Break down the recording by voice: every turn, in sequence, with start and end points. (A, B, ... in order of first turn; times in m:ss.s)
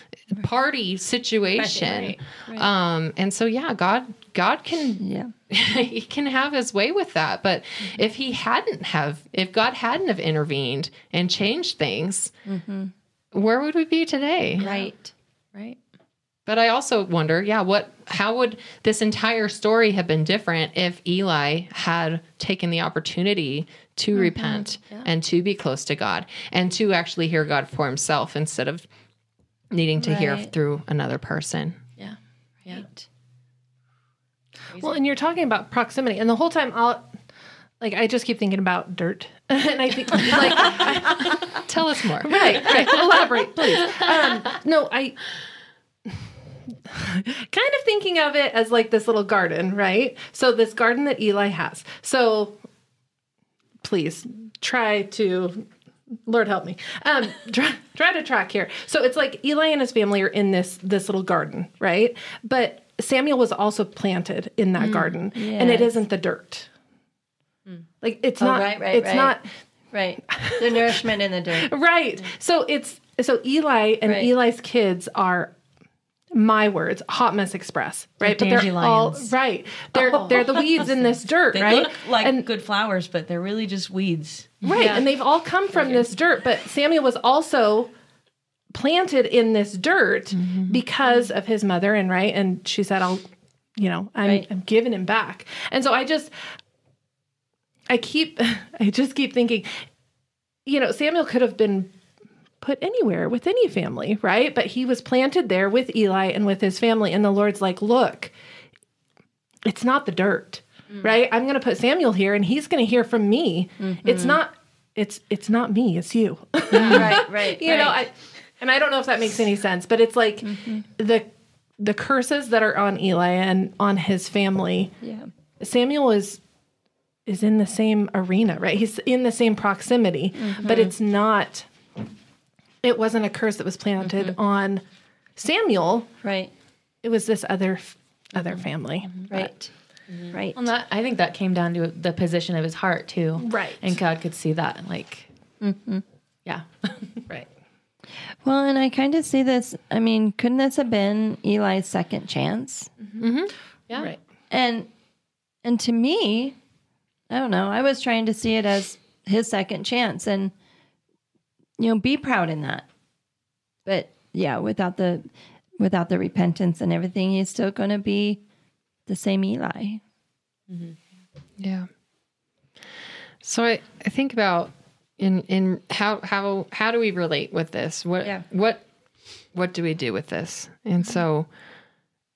0:00.3-0:12.3 A
0:01.8-0:02.1 B
0:02.5-0:02.7 C
0:05.0-0:05.3 C
0:12.5-0:12.9 C
0:13.3-0:14.6 A
0:14.6-0:14.9 B
0:14.6-0:15.1 C
0:15.5-0:15.8 B
0:16.5-0:28.9 A
0:24.2-0:25.1 B
0:29.7-0:31.8 A
0:30.0-0:30.5 C
0:32.0-0:32.9 B
0:34.7-0:35.0 B
0:34.8-0:37.1 D
0:37.8-0:41.6 D
0:41.7-0:44.4 A
0:42.2-0:45.2 D
0:46.9-0:52.6 D
0:53.8-0:55.7 D
0:56.2-1:06.7 D
1:05.3-1:05.9 C
1:08.0-1:09.4 D
1:08.4-1:09.4 C
1:09.9-1:11.7 C
1:10.3-1:11.0 D
1:11.5-1:15.5 D
1:14.0-1:14.3 C
1:16.3-1:22.5 D
1:18.2-1:19.3 A
1:21.5-1:24.6 E
1:24.6-1:27.9 D
1:24.8-1:25.0 C
1:28.7-1:33.2 D
1:30.3-1:30.8 A
1:33.8-1:36.3 D
1:37.9-1:39.7 D
1:40.7-1:41.9 D
1:42.6-1:48.3 D
1:49.7-2:01.3 D
1:53.8-1:54.4 C
1:56.7-1:57.9 C
1:56.7-1:58.0 B
2:00.4-2:00.8 C
2:01.8-2:04.9 D
2:05.0-2:05.3 C
2:05.6-2:06.4 D
2:07.3-2:11.7 D
2:10.4-2:10.9 C
2:12.8-2:14.8 D
2:14.0-2:14.4 B
2:15.4-2:16.1 D
2:16.2-2:16.5 C
2:17.0-2:19.1 D
2:18.4-2:19.3 B
2:19.3-2:19.7 C
2:20.1-2:25.3 B
2:20.3-2:20.7 C
2:23.4-2:23.8 D
2:25.6-2:26.0 C
2:26.5-2:27.2 B
2:28.4-2:32.9 C
2:33.2-2:33.5 A
2:34.5-2:34.9 C
2:35.6-2:36.6 C
2:37.3-2:40.5 C
2:41.8-2:42.9 C
2:43.8-2:48.4 C
2:49.1-2:50.0 C
2:51.6-2:51.9 A
2:53.4-2:58.9 A
2:59.5-3:01.5 A